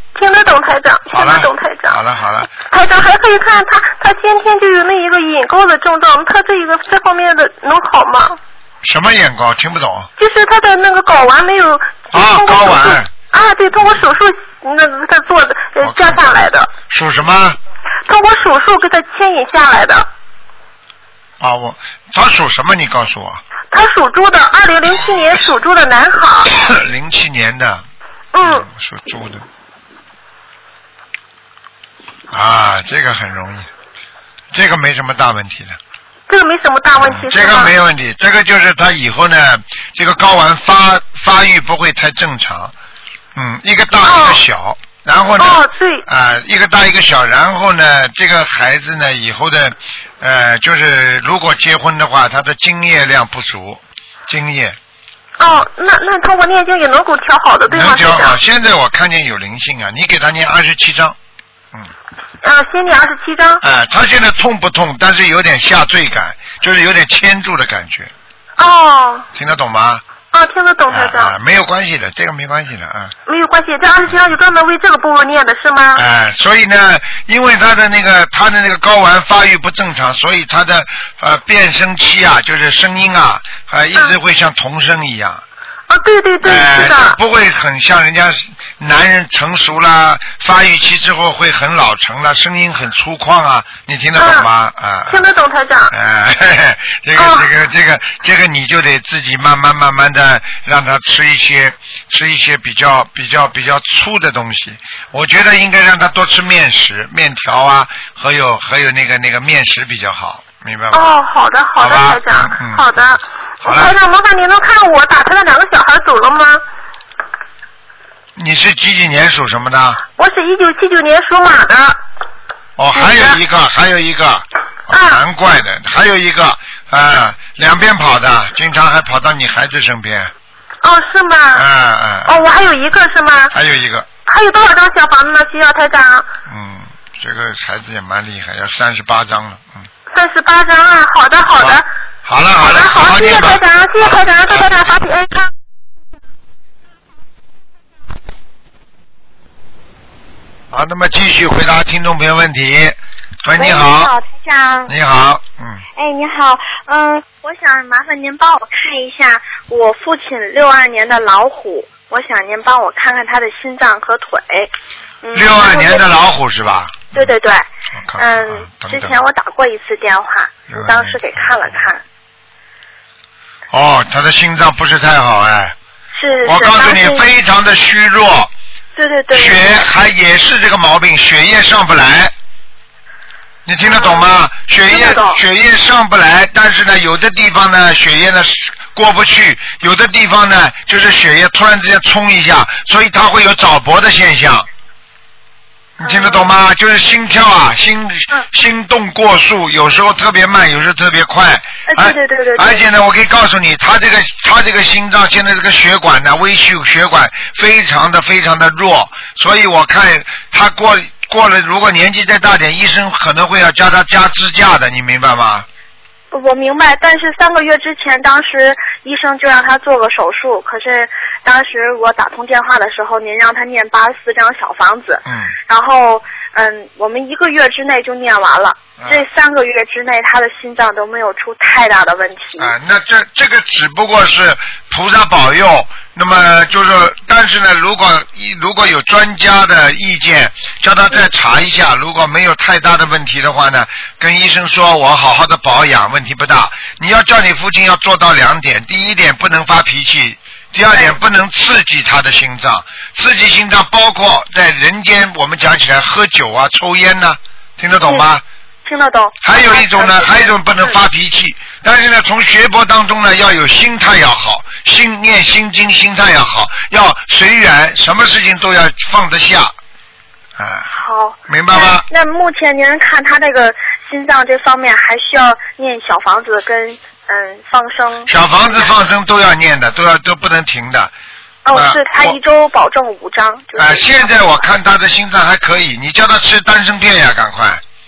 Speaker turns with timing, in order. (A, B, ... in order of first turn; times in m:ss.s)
0:00.1-0:02.0 A
0:01.1-0:02.5 B
0:02.6-0:08.4 A
0:08.8-0:10.1 B
0:10.2-0:16.7 A
0:12.1-0:13.1 B
0:15.8-0:17.6 B
0:18.1-0:20.1 A
0:21.4-0:23.4 B
0:23.7-0:26.5 A
0:26.5-0:27.8 B
0:28.3-0:28.6 A
0:28.4-0:29.4 B
0:32.3-0:33.7 B
0:34.5-0:35.8 B
0:36.3-0:37.7 A
0:37.0-0:42.7 B
0:43.3-0:54.8 B
0:44.0-0:44.4 A
0:45.4-0:46.0 A
0:55.4-0:58.4 A
0:57.7-1:01.2 B
1:02.4-1:03.6 A
1:03.6-1:08.1 B
1:08.6-1:09.3 A
1:09.3-1:10.0 B
1:10.3-1:11.3 A
1:10.9-1:13.1 B
1:13.3-1:16.0 A
1:15.9-1:25.4 B
1:25.9-1:27.2 A
1:26.4-1:35.2 B
1:34.2-1:34.5 A
1:35.1-1:35.9 A
1:35.9-1:51.2 B
1:37.2-1:37.5 A
1:50.9-1:56.6 A
1:51.8-1:53.0 B
1:53.6-1:54.0 B
1:58.4-2:00.0 B
2:00.2-2:02.0 A
2:02.8-2:10.3 B
2:02.9-2:03.4 A
2:04.9-2:05.2 A
2:10.8-2:11.6 A
2:11.5-2:12.4 B
2:12.2-2:13.5 A
2:13.5-2:14.1 B
2:14.2-2:16.3 A
2:16.5-2:19.9 B
2:20.1-2:21.9 A
2:21.6-2:24.9 B
2:22.6-2:25.5 A
2:30.7-2:34.1 B
2:33.5-2:34.9 C
2:34.9-2:35.8 B
2:36.0-2:44.7 C
2:45.2-2:46.0 C
2:45.3-2:47.3 B
2:47.1-2:47.6 C
2:48.0-2:49.2 B
2:48.2-2:52.0 C
2:50.7-2:51.8 B
2:53.7-2:55.8 B
2:56.1-2:57.2 C
2:56.4-2:58.5 B
2:58.9-2:59.8 C
2:59.3-3:02.3 B
3:03.6-3:14.7 B
3:03.8-3:04.3 C
3:04.8-3:05.4 C
3:16.0-3:35.6 B
3:16.0-3:16.5 C
3:21.9-3:22.8 C
3:36.3-3:52.7 C
3:45.2-3:45.5 B
3:49.0-3:49.2 B
3:52.6-4:18.4 B
4:10.9-4:11.2 C
4:18.8-4:20.9 C
4:19.4-4:29.7 B
4:30.6-4:30.9 B
4:30.9-4:38.9 C
4:31.5-4:32.0 B
4:38.3-4:41.1 B
4:41.6-4:44.3 C
4:41.7-4:42.4 B
4:43.8-4:47.8 B